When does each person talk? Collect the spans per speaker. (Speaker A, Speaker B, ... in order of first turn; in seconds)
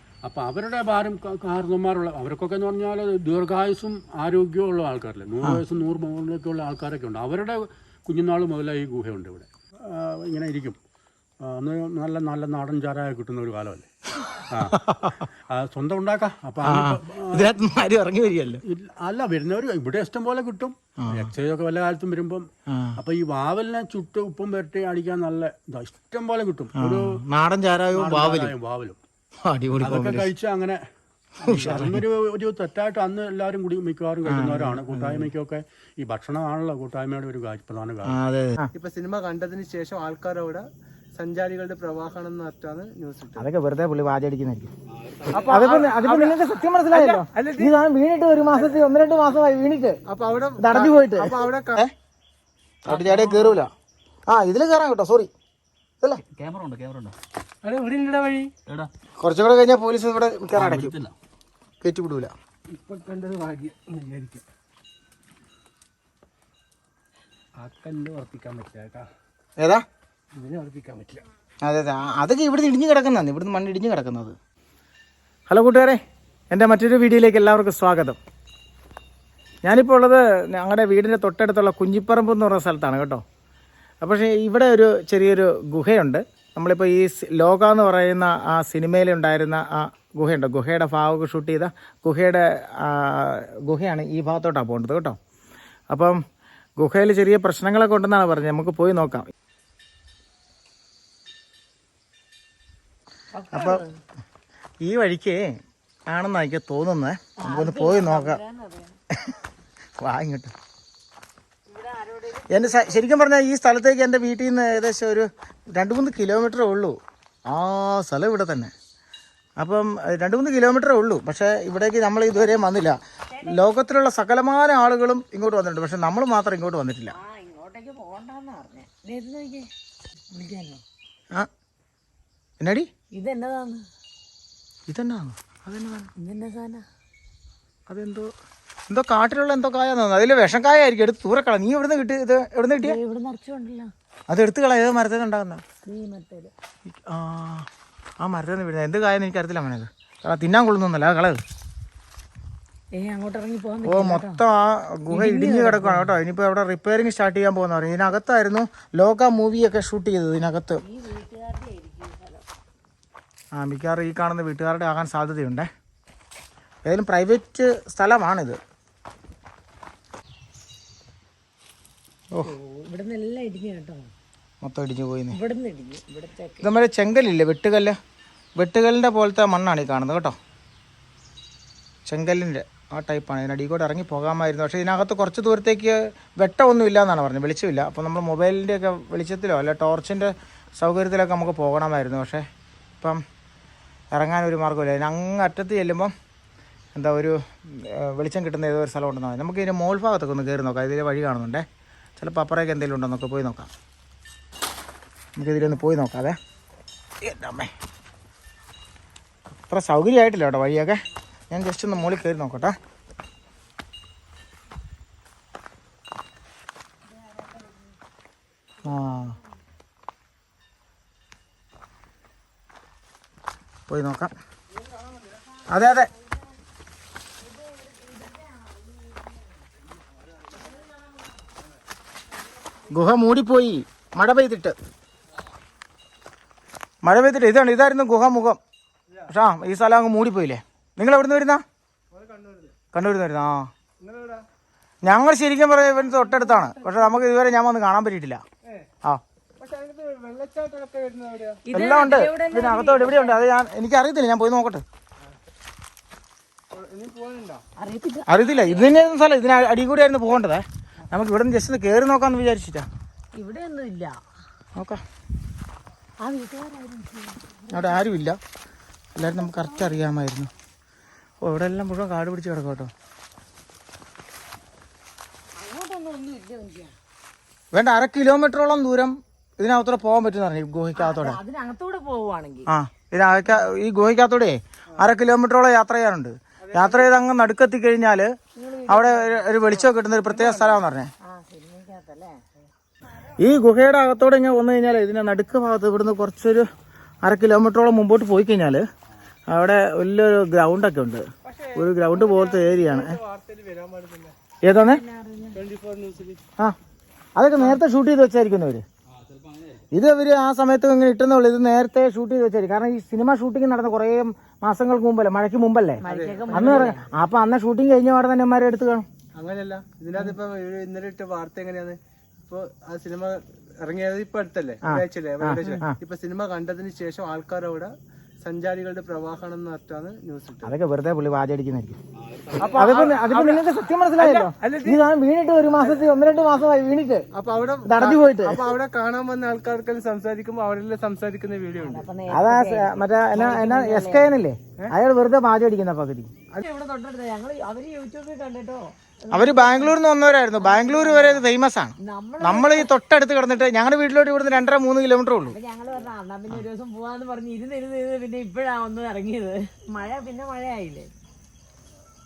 Speaker A: 0.2-10.8, 11.4-13.9, 14.5-17.7, 18.6-22.5, 23.0-27.2, 27.9-29.0, 29.8-30.8, 31.4-38.2
Speaker B: 14.2-15.2, 16.6-18.6, 21.0-21.3, 22.7-23.0, 26.8-28.5, 29.4-30.3, 31.5-32.0, 34.2-35.3, 38.0-38.7, 43.4-44.7, 45.5-50.0, 50.6-51.9, 52.9-53.7, 54.3-55.3, 59.2-61.0, 61.8-62.3, 69.6-69.8, 71.6-74.4, 75.5-76.0, 76.5-78.2, 79.6-83.2, 84.0-95.2, 95.9-96.2, 96.8-99.3, 103.5-103.8, 104.8-105.4, 106.1-108.4, 110.0-110.5, 112.5-118.7, 119.6-127.2, 132.6-132.9, 134.9-136.1, 137.9-138.3, 138.9-143.0, 144.3-145.6, 146.9-147.7, 148.2-151.4, 153.8-160.8, 163.5-165.7, 166.8-168.6, 174.6-175.4, 176.6-178.0, 178.6-180.4, 182.1-192.4, 194.1-196.1, 196.9-201.7, 202.2-203.7, 205.4-206.4, 207.2-207.7, 209.7-212.8, 218.8-219.4, 223.9-224.3, 225.7-226.1, 232.9-234.8, 237.0-238.6, 239.3-241.6, 242.9-243.7, 245.0-248.4, 251.7-254.8, 258.3-262.9, 267.7-268.4, 269.1-270.5, 271.4-272.9, 277.7-281.4, 282.7-288.3, 288.9-291.1, 293.4-296.7, 297.2-298.8, 299.5-301.2, 301.8-303.2, 304.6-305.0, 307.4-308.9, 309.9-319.1, 324.9-326.0, 330.6-332.0, 332.6-337.2, 337.9-338.6, 342.3-346.3, 349.3-355.6
Speaker C: 38.7-43.5, 45.3-47.8, 50.1-51.8, 57.6-58.5, 62.7-64.4, 67.6-69.1, 70.3-71.2, 242.1-242.8, 244.0-244.4, 246.0-247.3, 249.6-251.6, 256.7-257.6, 286.6-287.2, 289.8-290.8, 301.4-304.4, 305.5-306.4, 307.5-307.8, 316.0-317.0, 319.4-330.8, 332.6-333.6, 334.2-335.0, 335.7-336.1, 337.3-342.1
Speaker D: 44.9-45.5, 52.9-53.6, 56.3-57.2, 60.5-61.1, 309.1-309.8, 332.2-332.9
Speaker E: 103.3-103.9, 107.4-109.0, 111.7-113.0, 123.3-123.7, 127.1-129.7, 130.3-130.8, 133.1-133.8, 136.2-136.8, 142.8-143.9, 145.8-146.5, 153.0-154.4, 155.1-156.1, 160.8-162.4, 172.4-174.1, 175.3-176.7, 227.8-228.8, 251.7-253.4, 257.8-259.0, 263.4-264.2, 266.2-268.1, 269.2-270.0, 275.6-276.9, 280.9-282.7, 288.6-289.5, 291.2-292.4, 304.8-305.6, 316.0-317.1, 341.8-344.4, 346.6-350.0, 350.6-351.5, 352.0-352.9, 355.5-361.1